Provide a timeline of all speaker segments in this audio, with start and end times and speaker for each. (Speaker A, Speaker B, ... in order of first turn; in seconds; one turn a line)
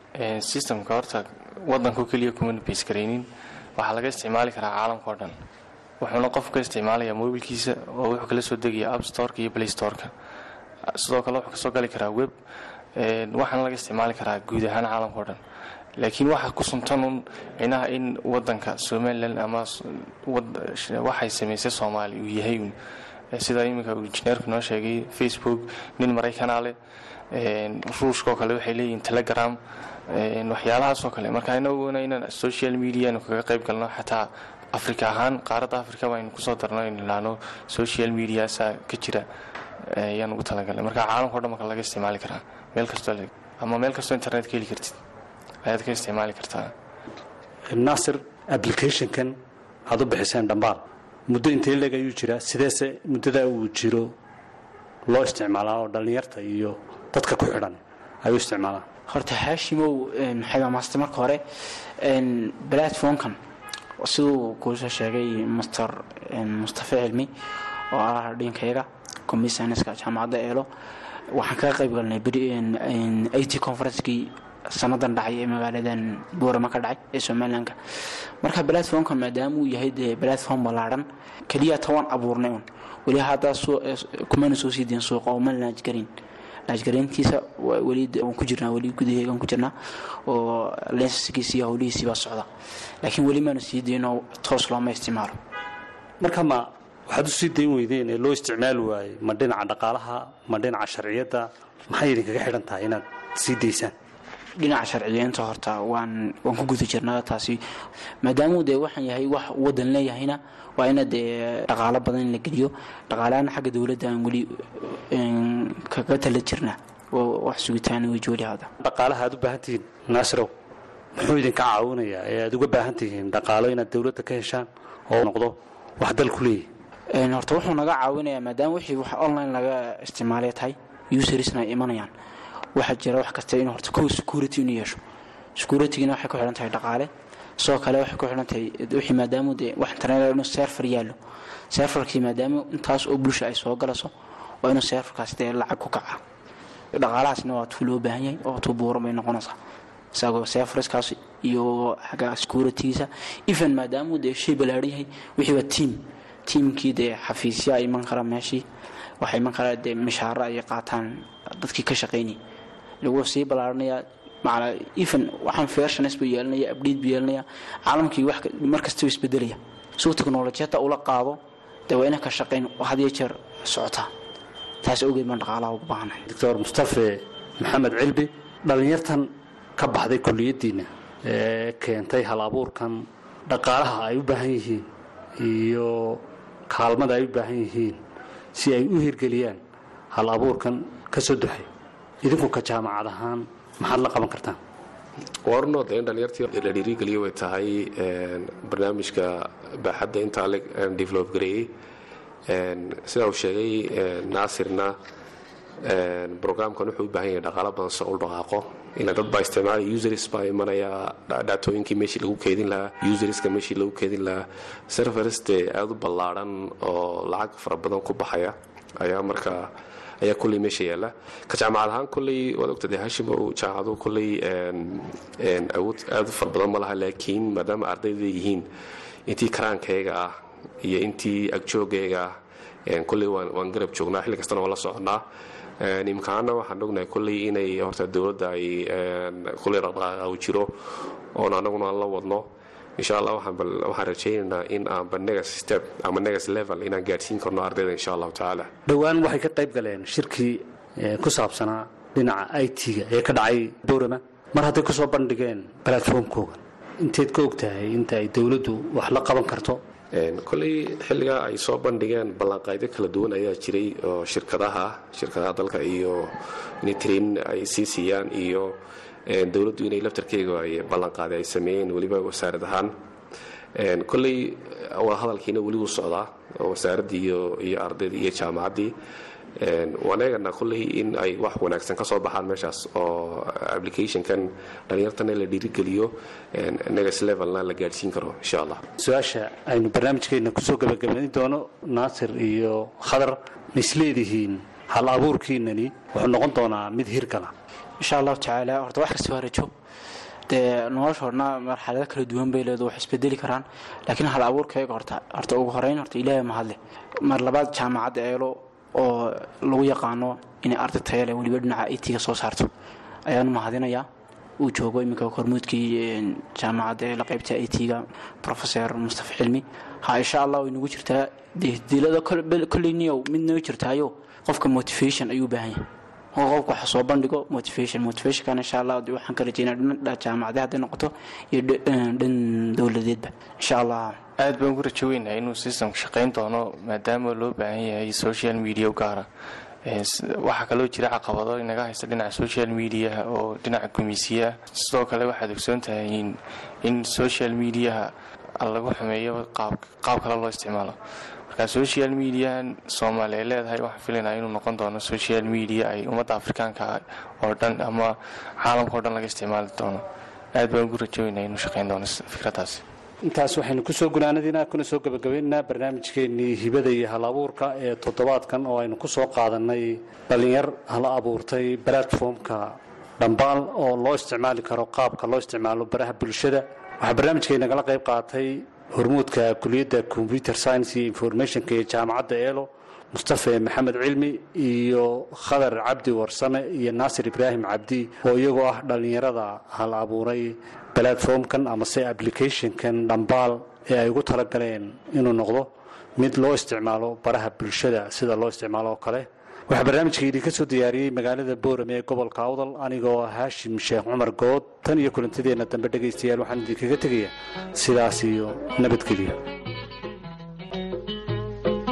Speaker A: 0.2-5.4
Speaker A: 6.0-10.1
Speaker A: 10.9-12.3
Speaker A: 12.9-15.4
Speaker A: 16.0-22.8
Speaker A: 23.3-26.8
Speaker A: 27.3-39.3
Speaker A: 39.8-45.0
Speaker A: 45.6-46.7
Speaker B: 47.7-54.1
Speaker B: 55.1-58.9
Speaker C: 59.1-61.4
Speaker C: 62.0-63.4
Speaker C: 64.0-67.3
Speaker C: 67.9-70.7
Speaker C: 71.3-77.8
Speaker C: 78.4-86.1
Speaker C: 86.7-89.7
Speaker C: 90.3-92.5
Speaker C: 93.0-95.4
Speaker B: 96.2-104.0
Speaker C: 104.6-107.6
Speaker C: 108.2-118.7
Speaker B: 118.8-120.5
Speaker B: 121.2-126.7
Speaker C: 127.1-132.1
Speaker C: 132.8-135.0
Speaker C: 135.6-141.2
Speaker C: 141.7-144.1
Speaker C: 144.6-146.2
Speaker C: 146.9-149.6
Speaker C: 150.2-158.7
Speaker C: 159.2-162.4
Speaker C: 163.0-174.1
Speaker C: 174.8-176.2
Speaker B: 176.3-184.9
Speaker B: 185.4-188.0
Speaker B: 188.6-189.6
Speaker B: 190.1-191.7
Speaker B: 192.2-194.6
Speaker D: 195.5-201.7
Speaker D: 202.5-204.9
Speaker D: 205.8-228.7
Speaker D: 229.3-232.3
Speaker D: 232.9-235.2
Speaker D: 235.8-240.7
Speaker D: 241.3-242.5
Speaker D: 243.0-248.7
Speaker B: 248.9-259.8
Speaker D: 260.1-268.8
Speaker D: 269.3-272.9
Speaker D: 273.8-278.9
Speaker D: 279.6-288.8
Speaker B: 289.0-297.5
Speaker C: 298.0-299.7
Speaker C: 300.5-312.7
Speaker C: 313.3-314.1
Speaker C: 314.6-334.2
Speaker A: 334.4-339.3
Speaker A: 339.9-360.0
Speaker A: 360.6-362.8
Speaker B: 363.3-409.4